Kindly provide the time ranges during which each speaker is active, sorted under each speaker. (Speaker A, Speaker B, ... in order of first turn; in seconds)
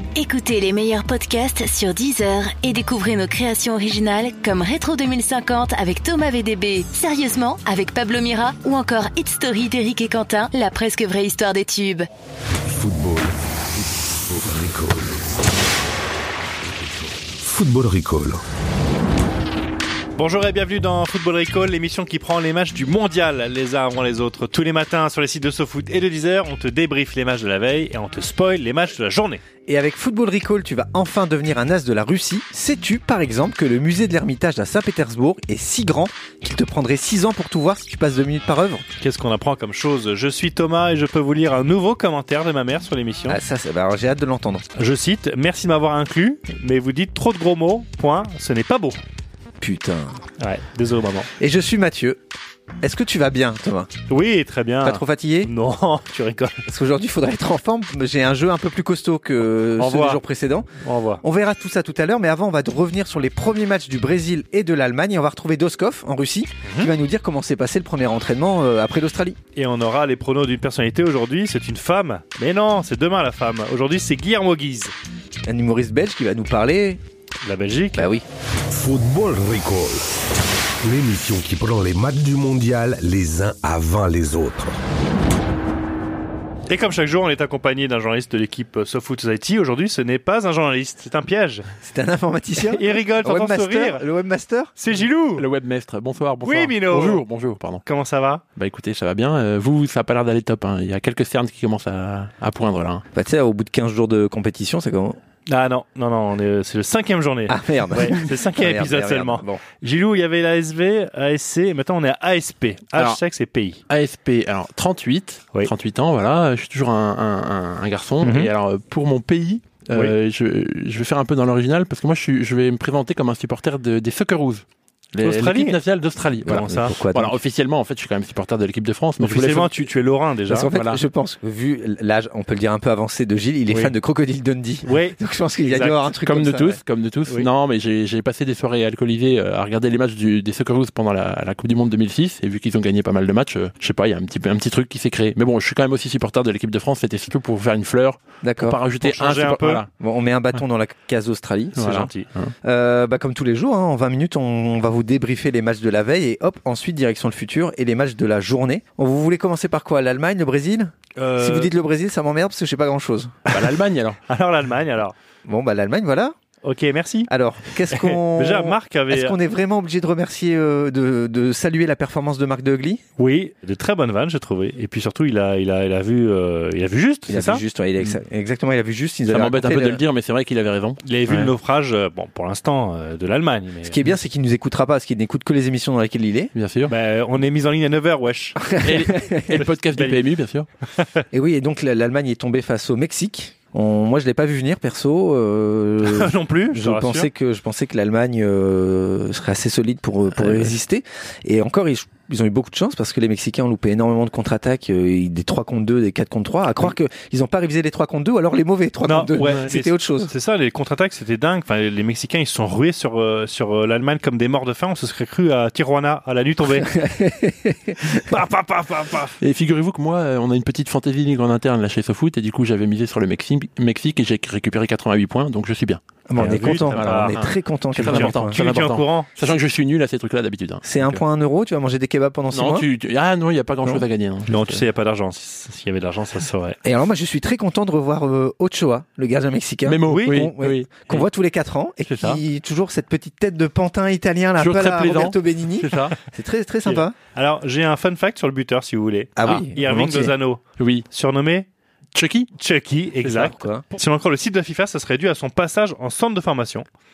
Speaker A: 0.1-12.1
Speaker B: 12.7-15.2, 16.6-18.4, 78.7-80.1, 80.8-84.8
Speaker C: 20.2-29.4, 39.0-43.4, 44.8-49.0, 50.4-51.3, 54.1-56.6, 59.8-60.2, 60.8-61.2, 66.7-66.9, 69.6-74.9, 77.4-78.1, 86.7-91.7, 92.6-94.1, 94.8-95.5, 96.4-97.2, 97.8-98.4, 105.5-113.8, 118.2-118.5, 125.2-125.8, 126.5-127.0, 129.2-130.7, 134.8-136.1, 149.0-149.8, 151.8-152.3, 161.2-161.7, 164.3-165.2, 166.6-167.3, 167.9-169.4, 173.2-177.6, 181.0-184.0, 186.9-188.7, 189.5-190.2, 196.0-197.3, 200.3-200.8, 209.1-217.0, 218.1-219.4, 226.4-227.4, 228.0-229.5, 234.5-236.8, 240.1-240.3, 247.3-251.7, 252.6-256.9
Speaker D: 29.7-38.8, 43.3-44.7, 49.6-50.2, 51.4-52.2, 52.8-53.9, 54.8-55.5, 56.7-60.7, 61.2-69.4, 75.5-77.0, 78.0-78.2, 91.8-94.7, 103.1-105.2, 107.5-109.6, 126.5-127.4, 130.5-136.8, 148.4-148.8, 150.0-151.9, 152.6-163.3, 165.5-166.3, 167.3-173.0, 177.3-180.0, 183.8-186.5, 188.8-189.6, 191.3-210.3, 216.8-218.0, 226.3-228.6, 230.8-232.9, 236.8-247.2, 249.4-250.4, 253.2-253.8
Speaker E: 95.3-97.8, 98.6-103.0, 112.9-113.2, 113.9-129.9, 130.7-131.0, 136.2-149.9, 151.8-152.5, 163.5-164.2, 179.3-181.5, 186.5-186.9, 188.8-190.7, 219.4-231.2, 232.5-234.8, 239.9-241.3, 242.1-242.4, 244.6-246.2, 250.8-251.1, 252.2-252.5